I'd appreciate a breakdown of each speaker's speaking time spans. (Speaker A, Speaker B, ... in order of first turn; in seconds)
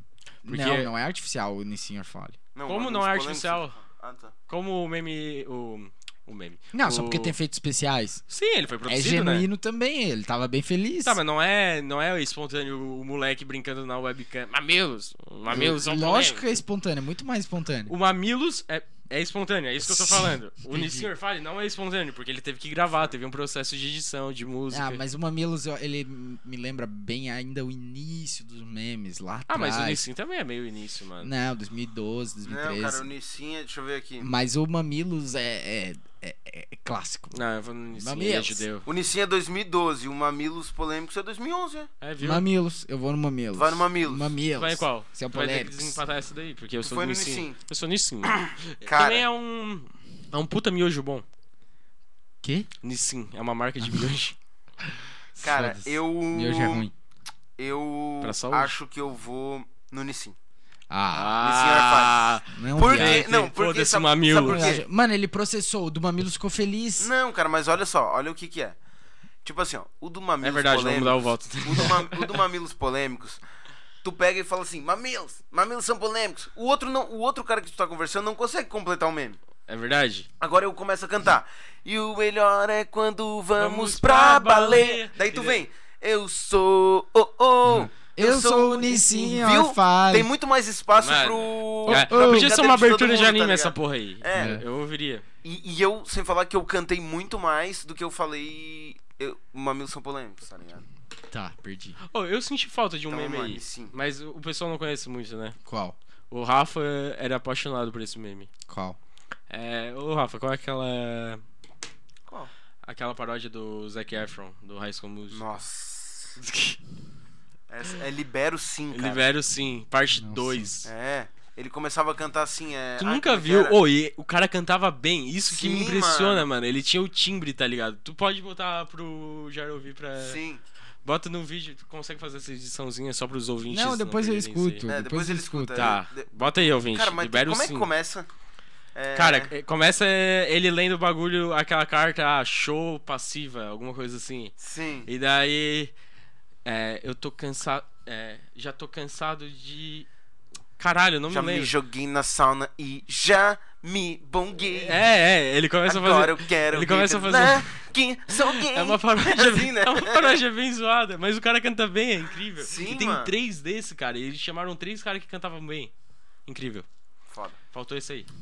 Speaker A: 0.5-2.4, 6.7-8.2, 8.9-11.2, 15.5-17.9, 19.8-21.1, 24.7-30.1, 31.2-33.1, 34.2-37.4, 37.9-38.6, 42.2-46.0, 52.4-52.7, 55.4-56.9, 60.9-61.4, 62.5-63.2, 64.3-67.1, 87.6-90.3, 91.9-92.5, 94.4-94.6, 101.3-102.0, 105.6-106.0, 108.7-109.0, 120.2-120.7, 133.7-135.9
Speaker B: 0.5-0.9, 2.6-3.8, 4.5-7.4, 8.3-9.5, 11.0-16.4, 17.9-25.0, 29.5-31.3, 37.3-38.9, 42.0-42.5, 44.6-51.2, 52.8-54.4, 58.2-58.8, 61.1-64.7, 70.4-72.4, 79.7-80.3, 83.6-85.6, 91.0-95.2, 102.1-105.6, 106.3-108.5, 109.5-111.4, 112.8-115.6, 116.4-116.8, 118.9-120.9, 123.0-130.4, 131.1-134.9, 135.8-137.9, 139.1-144.5, 145.1-145.9, 146.6-150.1, 150.8-151.7, 154.8-157.7, 158.4-165.9, 166.5-166.9, 167.7-168.3
Speaker C: 2.5-4.3, 32.4-34.3, 38.9-41.9, 43.5-44.3, 46.8-47.6, 48.2-49.2, 55.4-56.9, 57.6-60.4, 61.4-64.8, 67.0-68.8, 69.4-73.4, 74.0-79.4, 80.4-94.6, 95.4-100.9, 103.1-103.9, 115.3-116.4, 117.7-119.3, 120.8-123.8, 125.5-126.5, 130.2-130.6, 134.9-138.3, 138.9-139.5, 144.6-145.1, 151.3-155.0, 155.9-160.3, 162.6-163.3, 167.3-167.6